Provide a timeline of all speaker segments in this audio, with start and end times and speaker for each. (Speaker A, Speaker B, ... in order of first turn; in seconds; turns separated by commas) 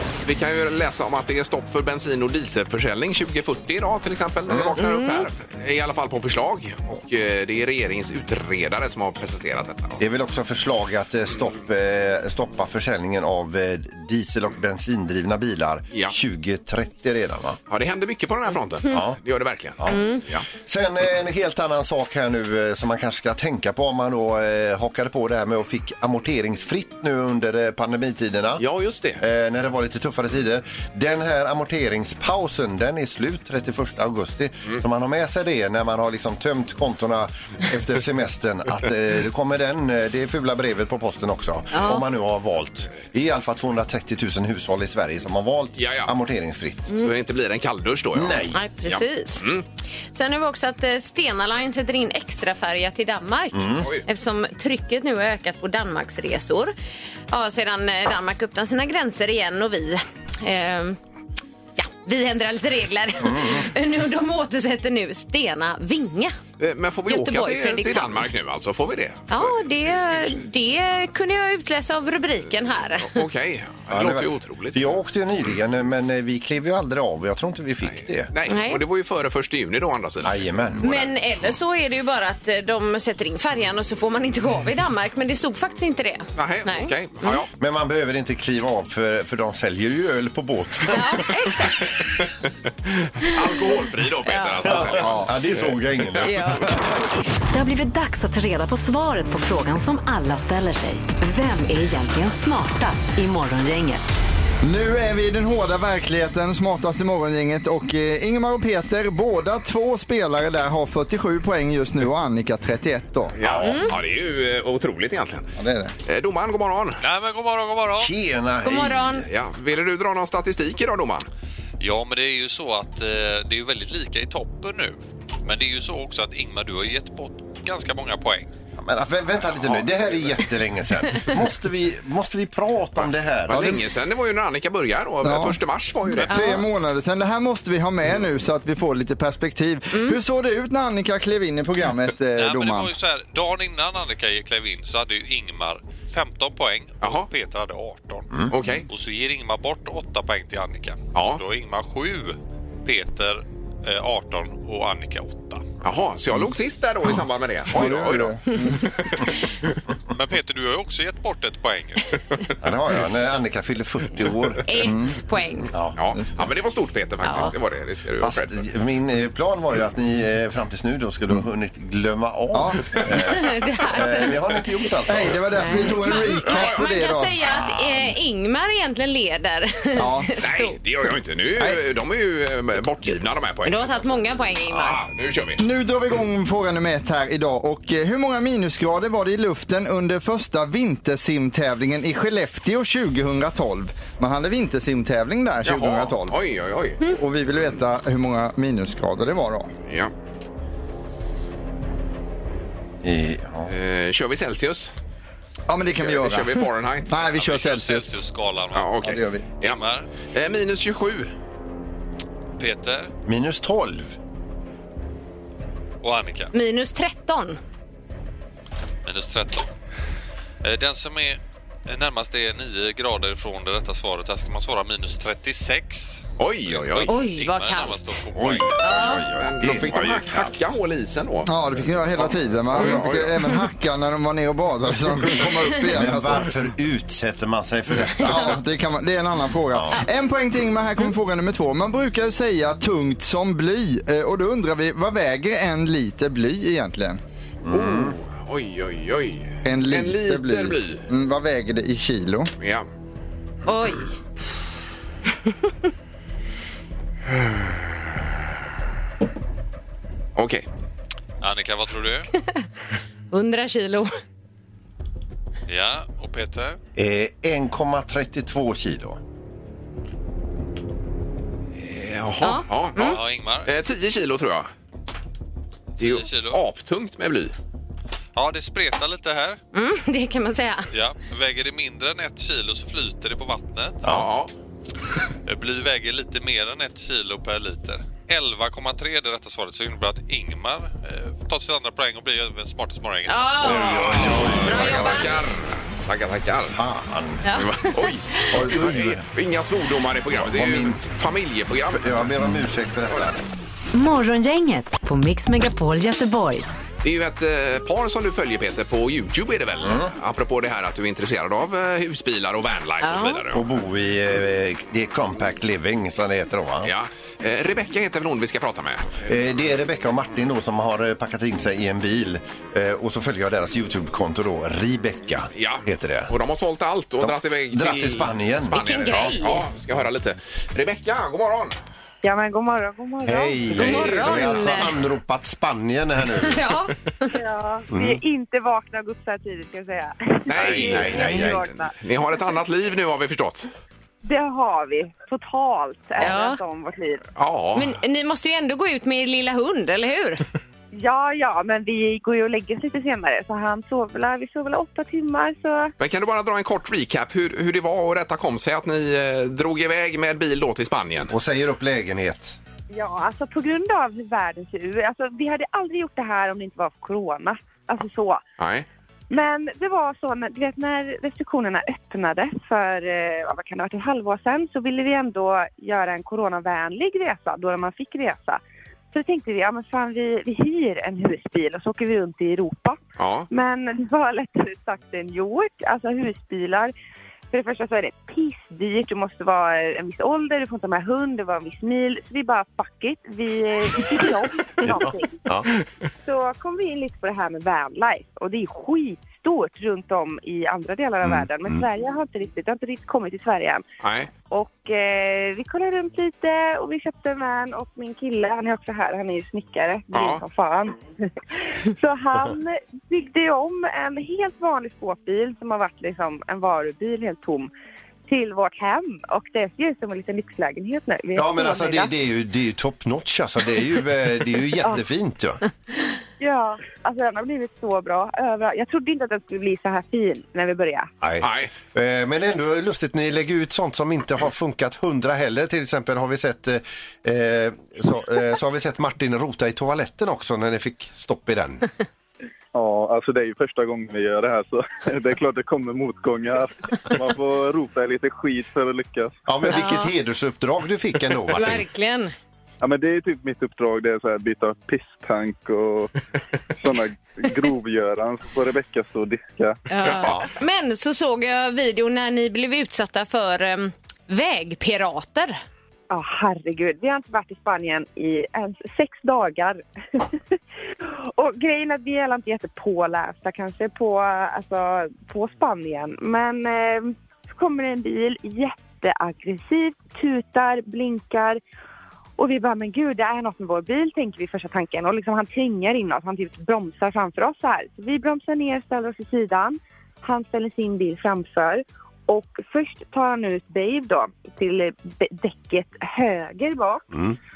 Speaker A: 0.2-10.0, Speaker B: 4.8-5.2, Speaker C: 10.0-17.6, Speaker A: 17.7-20.4, Speaker C: 18.9-19.2, Speaker C: 19.8-28.6, Speaker B: 19.9-20.2, Speaker A: 28.6-29.2, Speaker C: 29.2-46.9, Speaker B: 41.7-42.0, Speaker A: 45.8-46.1, Speaker A: 46.9-49.6, Speaker C: 48.1-48.6, Speaker B: 48.5-49.5, Speaker B: 50.1-56.7, Speaker C: 53.5-53.9, Speaker A: 53.8-54.0, Speaker B: 57.3-61.0, Speaker B: 61.8-66.3, Speaker C: 63.2-63.6, Speaker A: 66.6-69.7, Speaker B: 67.1-68.2, Speaker B: 69.3-73.2, Speaker A: 73.0-74.9, Speaker C: 73.9-78.3, Speaker A: 77.8-81.0, Speaker B: 78.5-78.8, Speaker C: 80.2-81.0, Speaker B: 80.8-87.4, Speaker A: 86.3-87.5, Speaker C: 87.6-91.3, Speaker B: 90.9-91.8, Speaker A: 92.9-96.7, Speaker B: 94.2-94.8, Speaker C: 94.6-96.8, Speaker D: 95.0-95.3, Speaker B: 96.2-96.8, Speaker E: 97.5-104.0, Speaker D: 104.6-113.3, Speaker C: 113.3-113.9, Speaker A: 113.3-115.5, Speaker B: 113.6-113.9, Speaker D: 115.6-115.9, Speaker A: 116.0-117.0, Speaker F: 117.0-118.1, Speaker C: 118.0-119.3, Speaker B: 118.6-119.2, Speaker A: 119.2-121.3, Speaker F: 121.8-128.5, Speaker C: 128.8-133.8, Speaker A: 129.6-129.9, Speaker A: 133.0-136.6, Speaker D: 135.2-135.6, Speaker D: 136.1-142.9, Speaker B: 136.3-136.6, Speaker B: 139.9-140.2, Speaker F: 142.4-155.6, Speaker A: 148.5-148.8, Speaker A: 151.1-151.4, Speaker A: 155.8-159.2, Speaker D: 157.7-158.9, Speaker F: 160.1-162.2, Speaker C: 162.6-164.8, Speaker B: 164.7-165.7, Speaker D: 164.8-165.1, Speaker A: 165.9-168.6, Speaker B: 167.2-167.5, Speaker C: 168.2-175.8, Speaker D: 172.5-172.9, Speaker B: 173.2-174.3, Speaker D: 175.1-177.3, Speaker B: 175.6-180.8, Speaker A: 176.4-176.8, Speaker D: 180.0-180.3, Speaker A: 180.4-185.6, Speaker B: 183.7-185.0, Speaker D: 185.6-196.4, Speaker A: 195.6-197.0, Speaker D: 197.1-199.7, Speaker A: 199.9-200.1, Speaker C: 203.0-203.7, Speaker A: 203.7-204.9, Speaker D: 205.7-208.1, Speaker A: 205.9-207.4, Speaker F: 207.3-209.0, Speaker A: 208.7-209.8, Speaker D: 209.0-209.4, Speaker F: 209.6-210.1, Speaker A: 210.3-211.3, Speaker F: 212.6-213.1, Speaker C: 213.2-214.1, Speaker F: 216.0-216.5, Speaker B: 216.5-217.6, Speaker F: 219.0-219.7, Speaker F: 220.6-229.0, Speaker A: 226.4-227.2, Speaker B: 227.1-228.2, Speaker C: 228.3-230.7, Speaker B: 228.8-229.2, Speaker A: 229.3-231.5, Speaker D: 231.4-236.5, Speaker A: 232.1-233.6, Speaker C: 235.9-238.6, Speaker D: 238.3-247.2, Speaker C: 239.7-240.0, Speaker C: 247.6-248.2, Speaker A: 247.7-251.1, Speaker D: 249.6-252.5, Speaker A: 252.6-252.9, Speaker B: 253.7-254.1, Speaker A: 260.4-260.6, Speaker F: 261.4-262.3, Speaker B: 263.3-264.1, Speaker F: 265.7-266.8, Speaker C: 266.9-269.2, Speaker A: 271.8-273.1, Speaker B: 272.4-273.2, Speaker F: 272.9-273.7, Speaker A: 273.6-274.7, Speaker F: 276.0-276.6, Speaker A: 276.0-277.5, Speaker F: 278.4-279.6, Speaker B: 279.7-280.9, Speaker F: 280.9-284.0, Speaker C: 284.0-284.3, Speaker A: 284.0-284.5, Speaker F: 285.4-294.5, Speaker B: 293.3-295.5, Speaker C: 293.6-295.3, Speaker A: 293.6-296.8, Speaker C: 296.7-297.4, Speaker B: 297.4-297.9, Speaker A: 297.5-302.3, Speaker C: 298.5-299.2, Speaker C: 300.3-301.0, Speaker C: 301.9-303.4, Speaker E: 303.9-306.6, Speaker A: 307.0-313.7, Speaker C: 309.8-310.1, Speaker B: 313.0-313.4, Speaker C: 313.5-316.9, Speaker A: 316.8-319.2, Speaker C: 319.2-326.3, Speaker A: 325.5-331.7, Speaker C: 327.2-328.8, Speaker B: 328.7-329.6, Speaker G: 332.2-334.3, Speaker C: 333.2-336.6, Speaker B: 333.7-335.0, Speaker A: 333.8-334.6, Speaker B: 336.4-337.2, Speaker G: 337.2-341.9, Speaker C: 337.9-338.2, Speaker A: 340.5-343.7, Speaker C: 340.5-341.6, Speaker G: 344.2-347.2, Speaker B: 346.2-346.6, Speaker A: 347.4-348.0, Speaker B: 347.7-350.4, Speaker G: 350.9-355.9, Speaker A: 356.0-361.3, Speaker C: 361.3-362.6, Speaker G: 362.9-368.4, Speaker A: 368.6-368.9, Speaker G: 369.3-383.0, Speaker A: 383.2-383.5, Speaker G: 383.5-386.9, Speaker G: 387.5-395.4, Speaker C: 394.8-395.7, Speaker G: 396.2-403.8, Speaker C: 401.2-401.7, Speaker A: 404.0-404.3, Speaker G: 404.5-411.0, Speaker A: 410.1-410.4, Speaker G: 411.6-417.7, Speaker G: 418.3-422.1, Speaker C: 421.3-425.6, Speaker G: 426.4-431.1, Speaker C: 431.2-441.9, Speaker A: 431.4-431.7, Speaker H: 442.7-449.4, Speaker C: 449.5-451.8, Speaker B: 449.7-450.1, Speaker B: 451.5-452.3, Speaker H: 452.8-456.1, Speaker H: 456.8-459.8, Speaker B: 459.9-465.6, Speaker A: 460.1-460.4, Speaker G: 466.1-470.2, Speaker G: 471.3-481.6, Speaker G: 482.4-497.0